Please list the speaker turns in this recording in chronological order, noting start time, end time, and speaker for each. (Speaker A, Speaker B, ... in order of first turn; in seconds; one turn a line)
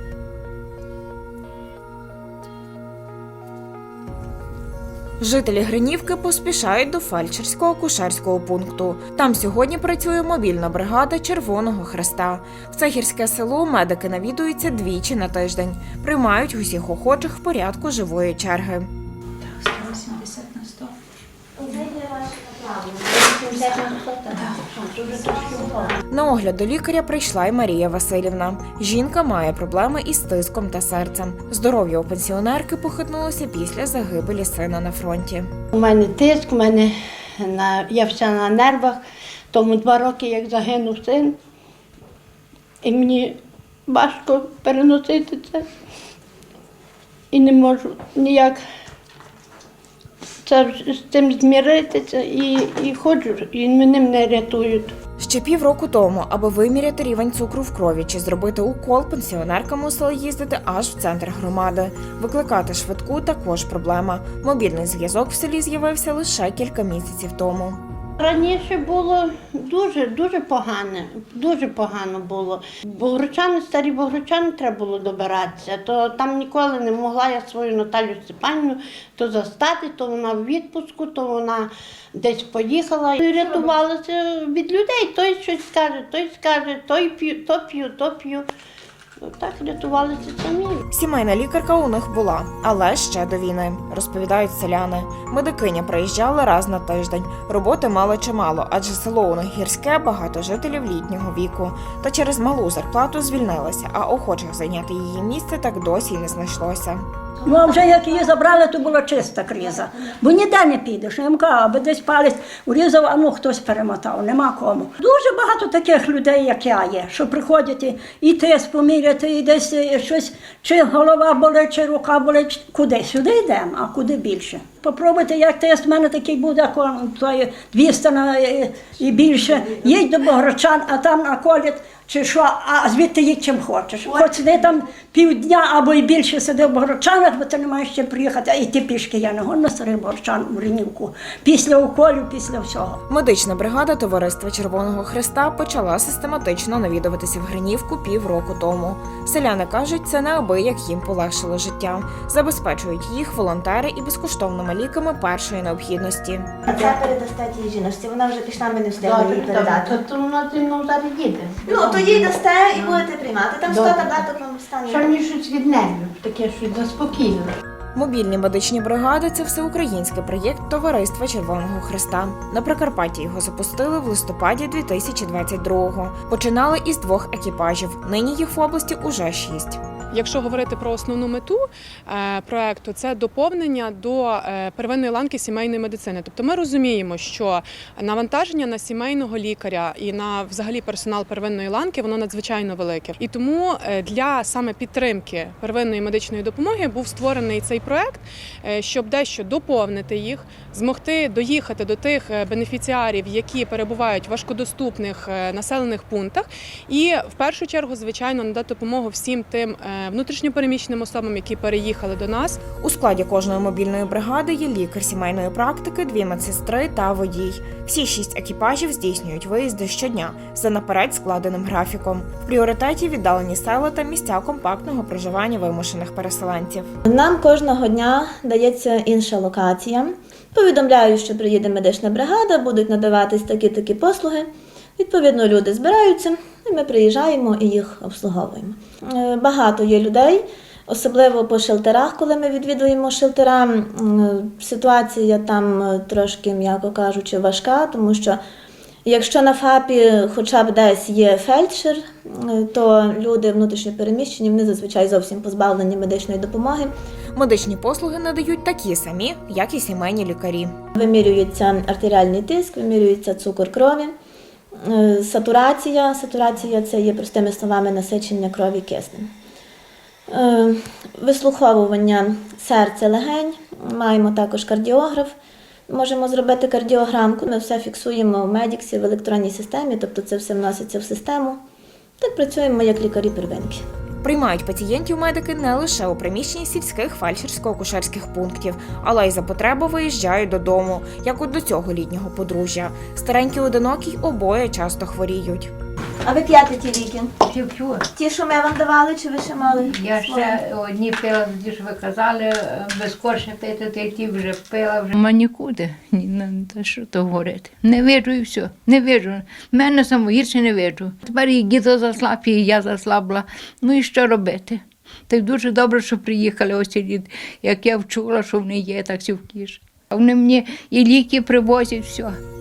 Speaker A: 5.2-18.9
Speaker B: 22.1-25.9
Speaker A: 26.1-35.5
Speaker B: 35.7-39.0
Speaker B: 39.5-41.3
Speaker B: 42.8-43.3
Speaker B: 43.9-45.6
Speaker B: 47.3-48.5
Speaker B: 50.5-54.9
Speaker A: 55.2-67.8
Speaker B: 68.2-88.4
Speaker B: 89.3-90.8
Speaker A: 90.9-107.0
Speaker C: 107.4-143.0
Speaker A: 143.1-156.5
Speaker D: 156.7-160.0
Speaker B: 159.0-162.2
Speaker D: 161.7-165.1
Speaker B: 163.7-164.2
Speaker B: 164.9-167.5
Speaker A: 167.9-179.8
Speaker E: 180.1-212.6
Speaker A: 212.8-226.9
Speaker D: 227.1-248.4
Speaker D: 249.1-256.9
Speaker A: 257.3-260.7
Speaker D: 260.9-264.1
Speaker D: 264.8-269.3
Speaker D: 270.3-275.3
Speaker D: 275.9-281.6
Speaker D: 282.2-283.8
Speaker A: 284.2-295.7
Speaker D: 296.2-297.3
Speaker F: 297.4-298.0
Speaker D: 298.1-300.6
Speaker F: 299.6-322.4